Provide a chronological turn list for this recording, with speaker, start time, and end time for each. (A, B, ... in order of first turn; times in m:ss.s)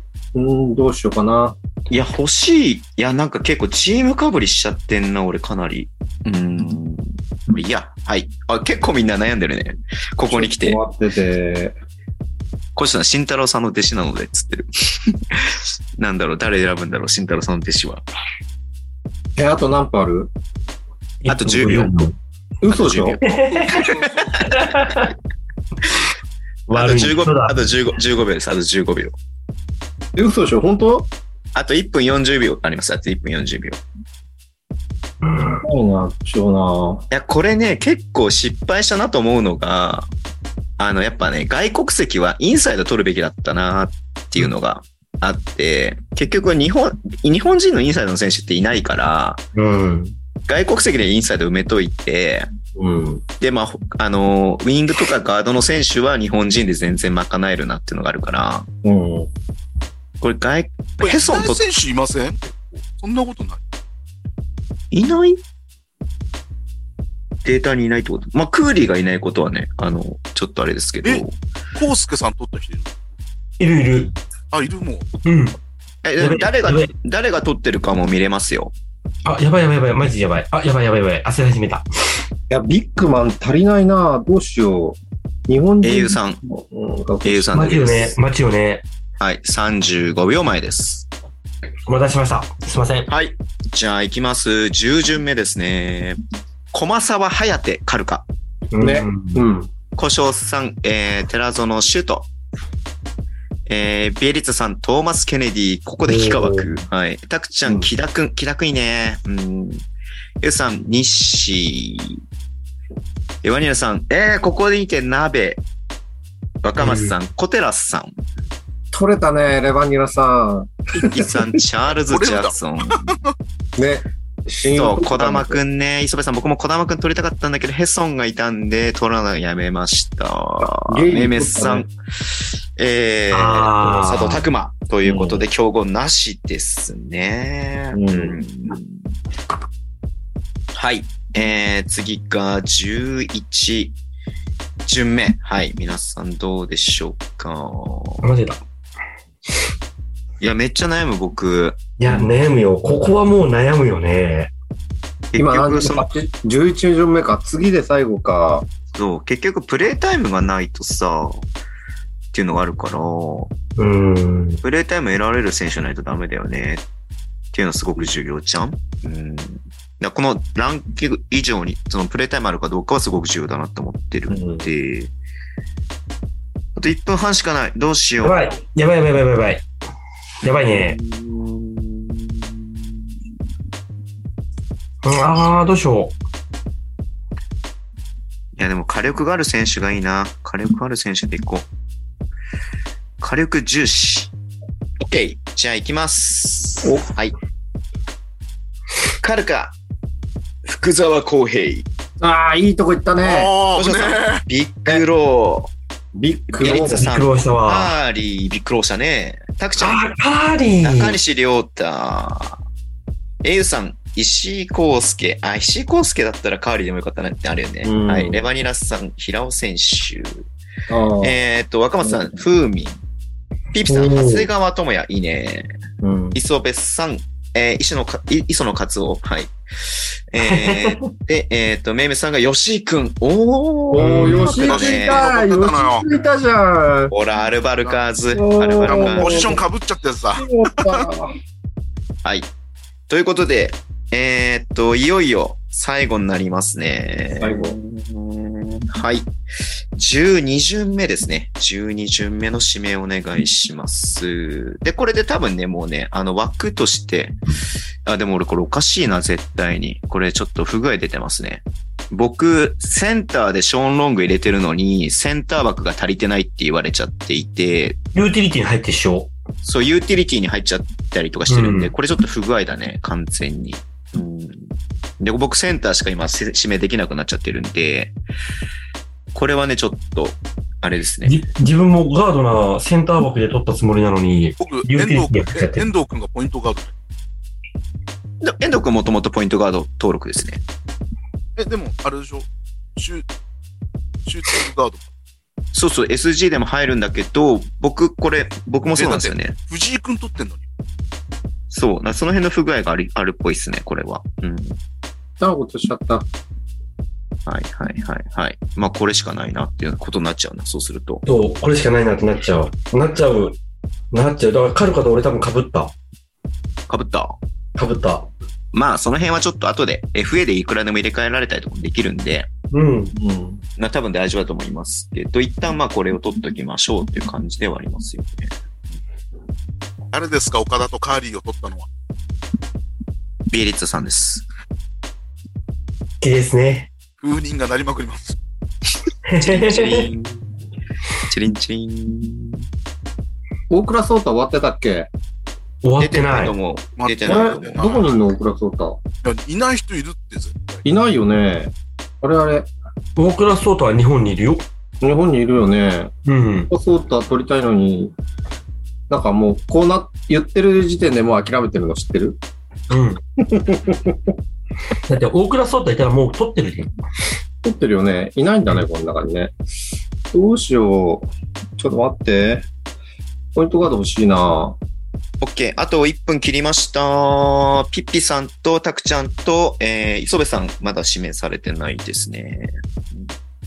0:00.4-0:01.6 A
0:01.9-0:10.8 B
0:10.3-0:11.7 A
0:12.8-0:18.0 B
0:19.4-0:20.3 A
0:21.2-0:22.2 C
0:21.3-0:21.9 B
0:22.6-0:23.2 A
0:22.7-0:25.1 B
0:23.2-0:23.9 C
0:23.7-0:24.3 D
0:24.4-0:25.1 C
0:26.7-0:27.6 C
0:26.7-0:29.2 B
0:30.2-0:31.1 A
0:31.6-0:33.8 B
0:35.2-0:35.6 C
0:35.6-0:37.0 A
0:37.1-0:40.1 B
0:40.8-0:49.4 B
0:49.6-0:50.2 C
0:50.5-0:52.5 B
0:52.8-0:53.2 A
0:53.4-0:58.7 B
0:58.8-0:59.3 A
1:00.2-1:01.6 B
1:01.0-1:03.6 D
1:04.9-1:05.4 B
1:07.4-1:11.4 B
1:11.8-1:12.9 D
1:13.6-1:14.1 C
1:14.5-1:15.1 D
1:15.2-1:15.6 C
1:16.0-1:18.7 B
1:16.2-1:16.9 C
1:19.2-1:21.9 C
1:22.5-1:27.5 A
1:25.8-1:26.4 B
1:27.2-1:28.2 B
1:27.5-1:28.8 C
1:29.2-1:31.1 B
1:31.9-1:33.1 C
1:33.1-1:36.2 B
1:36.7-1:38.3 B
1:38.7-1:39.4 C
1:38.8-1:39.7 A
1:40.0-1:42.3 B
1:43.7-1:49.8 B
1:46.1-1:46.8 C
1:50.4-1:52.2 B
1:53.4-1:55.6 B
1:56.6-1:58.1 B
1:56.8-1:57.2 C
1:58.9-2:01.4 A
2:01.0-2:03.1 B
2:02.1-2:03.3 D
2:03.8-2:05.6 A
2:04.7-2:19.0 B
2:10.8-2:11.9 A
2:13.3-2:14.5 C
2:15.0-2:15.4 A
2:17.9-2:18.4 A
2:20.7-2:24.0 B
2:24.9-2:28.2 B
2:28.2-2:28.6 C
2:30.4-2:31.8 B
2:32.0-2:34.5 C
2:35.3-2:36.1 B
2:35.4-2:38.7 A
2:38.9-2:41.4 B
2:42.3-2:43.5 B
2:43.8-2:44.6 C
2:44.6-2:46.8 B
2:47.5-2:55.1 B
2:54.3-2:54.7 A
2:56.8-2:58.4 B
2:58.2-2:59.7 C
3:00.4-3:01.0 C
3:00.6-3:02.6 B
3:05.0-3:06.2 C
3:08.6-3:11.7 B
3:13.2-3:14.3 B
3:15.0-3:17.3 B
3:19.2-3:19.8 B
3:20.6-3:21.9 B
3:22.2-3:23.5 A
3:23.2-3:24.4 D
3:23.7-3:25.7 B
3:26.1-3:27.1 A
3:26.6-3:30.0 B
3:26.6-3:27.9 C
3:29.8-3:31.2 C
3:30.8-3:32.6 B
3:33.4-3:40.4 B
3:37.8-3:38.4 A
3:40.9-3:41.4 A
3:41.2-3:43.0 B
3:42.0-3:42.4 A
3:43.7-3:45.7 B
3:43.9-3:44.5 C
3:46.0-3:46.4 A
3:46.3-3:55.3 B
3:50.4-3:51.1 C
3:53.9-3:57.1 A
3:54.0-3:54.6 C
3:54.6-3:56.1 D
3:57.1-3:59.6 B
3:58.3-3:59.6 A
3:58.8-4:01.1 D
4:00.4-4:01.3 A
4:02.2-4:02.5 B
4:03.1-4:09.3 B
4:07.4-4:07.8 A
4:10.0-4:17.4 B
4:18.1-4:28.0 B
4:28.2-4:29.3 C
4:29.6-4:38.2 B
4:31.5-4:31.9 C
4:39.3-4:41.4 B
4:41.2-4:45.9 C
4:44.6-4:46.9 D
4:48.4-4:50.6 B
4:51.6-4:53.2 D
4:54.2-4:55.1 D
4:55.7-4:59.6 B
4:59.0-5:00.6 D
5:01.7-5:04.8 B
5:05.4-5:06.3 A
5:07.5-5:11.2 B
5:11.3-5:13.6 C
5:14.1-5:15.9 C
5:16.9-5:17.3 B
5:17.8-5:18.3 C
5:18.7-5:22.5 B
5:22.7-5:23.2 C
5:23.2-5:23.6 A
5:23.8-5:28.5 B
5:30.1-5:31.9 D
5:33.5-5:34.5 B
5:36.2-5:36.9 C
5:37.2-5:38.4 D
5:39.3-5:40.1 C
5:39.4-5:40.5 B
5:41.3-5:42.7 B
5:43.7-5:45.1 A
5:45.8-5:46.6 C
5:46.0-5:47.8 B
5:47.0-5:48.2 D
5:47.3-5:49.0 A
5:49.2-5:50.8 D
5:50.8-5:52.7 A
5:53.2-5:54.6 C
5:55.0-5:56.1 A
5:56.3-5:56.7 C
5:56.7-5:58.1 A
5:59.1-6:02.4 A
6:02.9-6:03.2 C
6:03.4-6:04.2 A
6:05.1-6:06.9 C
6:07.6-6:09.6 A
6:10.3-6:12.7 A
6:13.6-6:14.8 A
6:15.4-6:23.3 B